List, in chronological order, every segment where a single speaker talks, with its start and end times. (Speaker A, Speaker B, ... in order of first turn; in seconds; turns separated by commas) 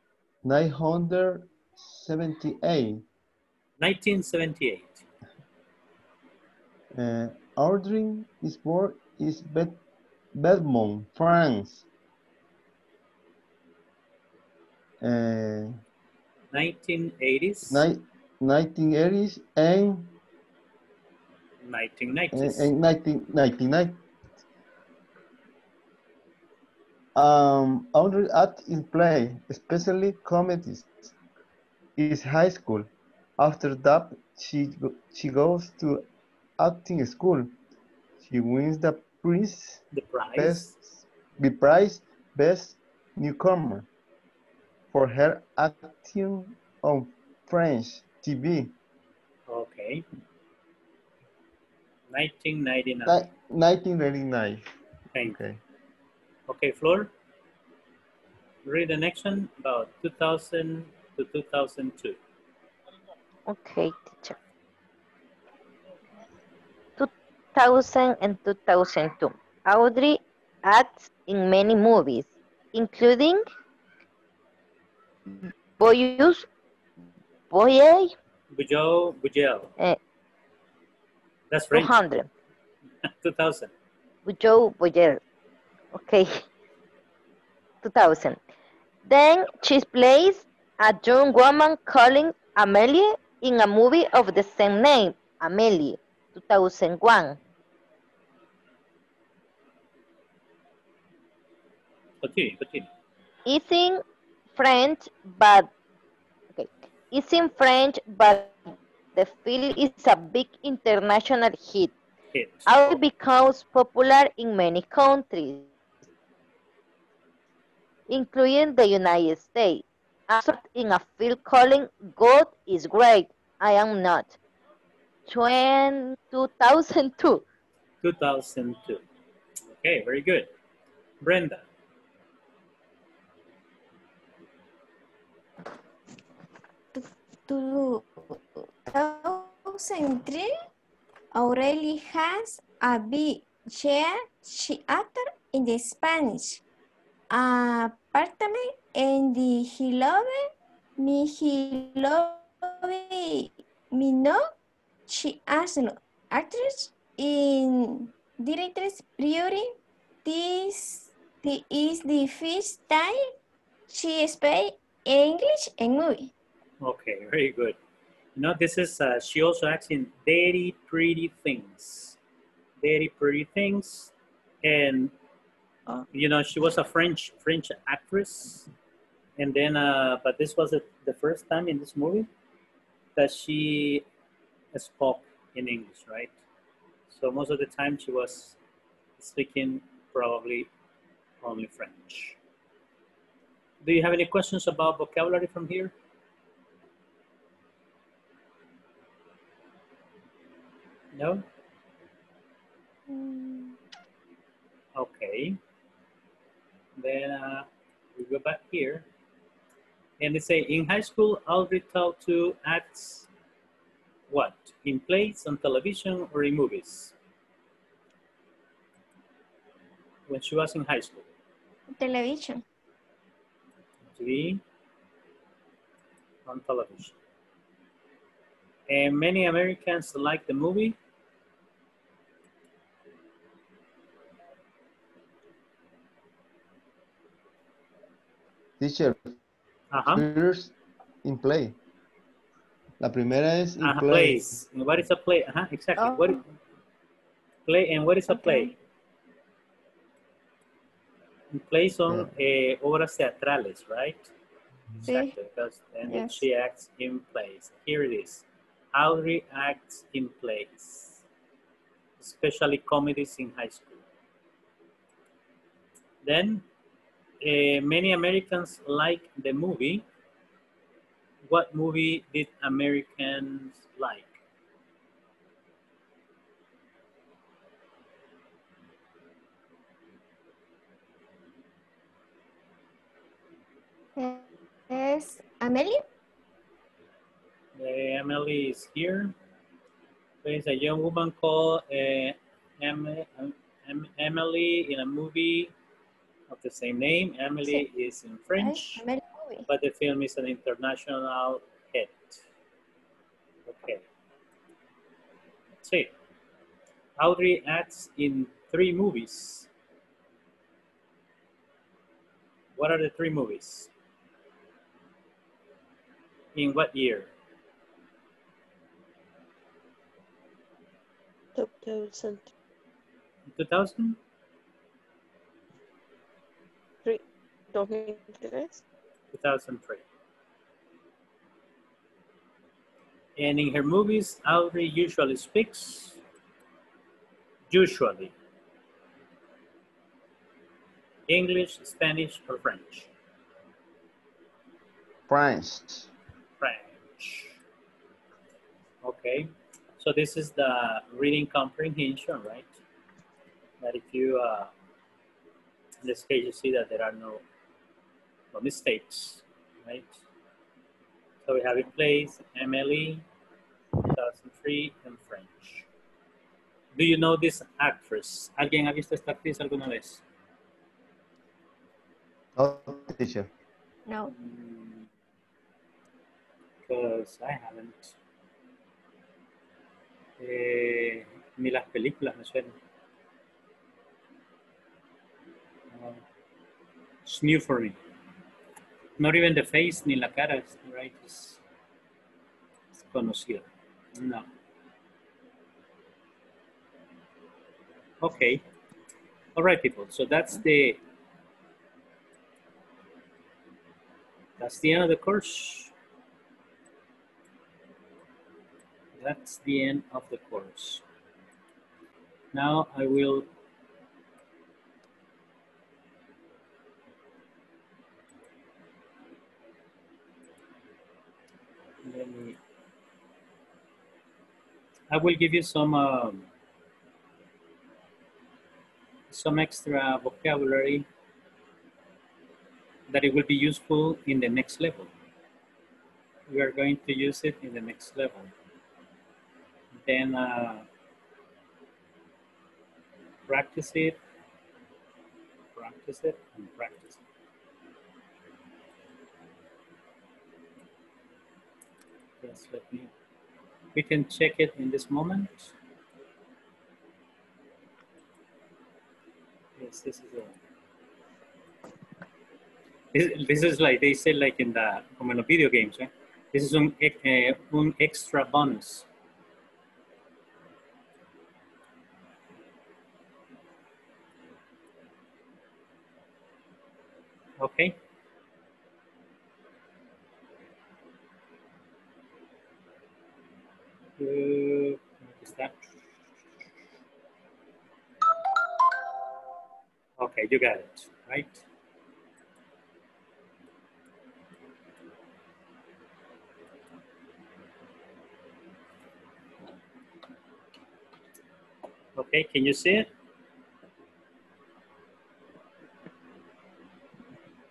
Speaker A: 0.4-3.0, Speaker B: 3.8-5.0, Speaker A: 6.9-9.8, Speaker A: 10.3-11.8, Speaker A: 15.0-15.8, Speaker B: 16.5-17.8, Speaker A: 17.7-20.1, Speaker B: 21.6-22.7, Speaker A: 22.3-24.0, Speaker A: 27.1-31.1, Speaker A: 32.0-32.9, Speaker A: 33.4-36.0, Speaker A: 36.6-37.5, Speaker A: 38.2-39.8, Speaker B: 39.9-40.7, Speaker A: 40.3-40.9, Speaker A: 41.4-43.9, Speaker A: 44.9-48.7, Speaker B: 49.5-50.0, Speaker B: 52.1-53.2, Speaker A: 53.0-54.7, Speaker A: 55.2-55.6, Speaker B: 56.5-57.1, Speaker B: 58.6-62.2, Speaker C: 63.5-64.3, Speaker C: 67.0-73.4, Speaker C: 75.4-76.5, Speaker C: 77.5-78.1, Speaker B: 78.5-79.7, Speaker B: 81.5-81.9, Speaker C: 81.7-82.3, Speaker B: 83.2-83.7, Speaker C: 84.2-85.2, Speaker C: 85.9-86.4, Speaker C: 87.8-88.4, Speaker C: 89.0-97.4, Speaker B: 102.2-102.9, Speaker C: 103.5-104.0, Speaker C: 104.5-105.7, Speaker C: 106.5-108.6, Speaker C: 109.2-111.9, Speaker B: 112.3-113.0, Speaker C: 112.7-115.7, Speaker C: 118.1-124.3, Speaker C: 125.3-127.4, Speaker B: 128.0-129.0, Speaker B: 129.7-130.5, Speaker B: 131.2-131.6, Speaker D: 136.9-140.5, Speaker D: 141.3-146.6, Speaker D: 147.3-154.4, Speaker D: 155.1-159.7, Speaker D: 160.2-163.3, Speaker D: 163.9-166.3, Speaker B: 166.8-167.8, Speaker B: 168.3-172.2, Speaker B: 172.8-174.1, Speaker B: 174.6-175.1, Speaker B: 176.1-178.7, Speaker B: 179.4-182.3, Speaker B: 183.2-184.0, Speaker B: 184.7-186.3, Speaker B: 187.1-188.6, Speaker B: 189.2-190.7, Speaker B: 191.4-192.4, Speaker B: 193.8-195.9, Speaker B: 201.1-201.4, Speaker D: 203.1-203.8, Speaker B: 204.9-205.6, Speaker B: 207.0-209.0, Speaker B: 210.2-213.3, Speaker B: 214.3-217.1, Speaker B: 220.3-221.3, Speaker D: 221.9-222.6, Speaker B: 224.1-224.6, Speaker B: 226.4-227.2, Speaker B: 228.9-230.9, Speaker A: 238.8-239.3, Speaker B: 239.9-240.2, Speaker A: 240.1-241.8, Speaker A: 243.0-244.6, Speaker B: 243.8-246.4, Speaker D: 246.0-246.4, Speaker B: 247.7-248.7, Speaker D: 248.3-248.7, Speaker B: 251.5-254.3, Speaker B: 255.0-261.2, Speaker D: 255.0-255.3, Speaker D: 256.1-256.4, Speaker B: 262.2-264.0, Speaker B: 266.2-266.6, Speaker B: 267.4-270.0, Speaker B: 271.4-274.4, Speaker D: 284.2-286.0, Speaker B: 287.8-289.3, Speaker B: 290.4-295.7, Speaker B: 296.5-299.0, Speaker D: 298.6-299.7, Speaker B: 299.7-302.4, Speaker B: 303.6-304.0, Speaker B: 305.8-306.1, Speaker B: 307.2-309.7, Speaker B: 312.8-313.9, Speaker B: 316.5-317.3, Speaker E: 321.6-322.5, Speaker B: 323.5-324.2, Speaker E: 327.0-328.8, Speaker B: 329.3-330.0, Speaker B: 333.4-336.2, Speaker B: 337.7-338.3, Speaker B: 341.3-343.1, Speaker A: 345.3-346.1, Speaker B: 346.6-347.6, Speaker B: 349.0-352.7, Speaker B: 353.8-354.7, Speaker B: 356.0-357.4, Speaker B: 358.5-360.2, Speaker B: 361.4-363.2, Speaker B: 364.0-365.9, Speaker B: 366.9-370.2, Speaker A: 372.6-373.5, Speaker D: 374.1-374.3, Speaker B: 374.3-375.1, Speaker B: 376.9-378.1, Speaker B: 380.4-382.7, Speaker B: 385.9-386.2, Speaker B: 387.2-387.9, Speaker B: 389.2-391.6, Speaker B: 392.9-394.5, Speaker B: 398.2-398.6, Speaker B: 399.6-401.0, Speaker B: 404.6-405.9, Speaker B: 409.2-411.0, Speaker B: 412.5-413.5, Speaker B: 422.0-422.6, Speaker B: 425.1-426.5, Speaker B: 429.3-431.1, Speaker B: 433.1-435.1, Speaker B: 436.5-438.5, Speaker B: 439.9-440.9, Speaker B: 443.5-444.2, Speaker B: 445.7-447.2, Speaker B: 452.4-453.1, Speaker B: 453.9-455.7, Speaker B: 459.8-460.6, Speaker B: 463.1-469.1, Speaker B: 477.6-478.0, Speaker B: 484.2-485.8, Speaker B: 490.2-491.6, Speaker B: 502.1-503.1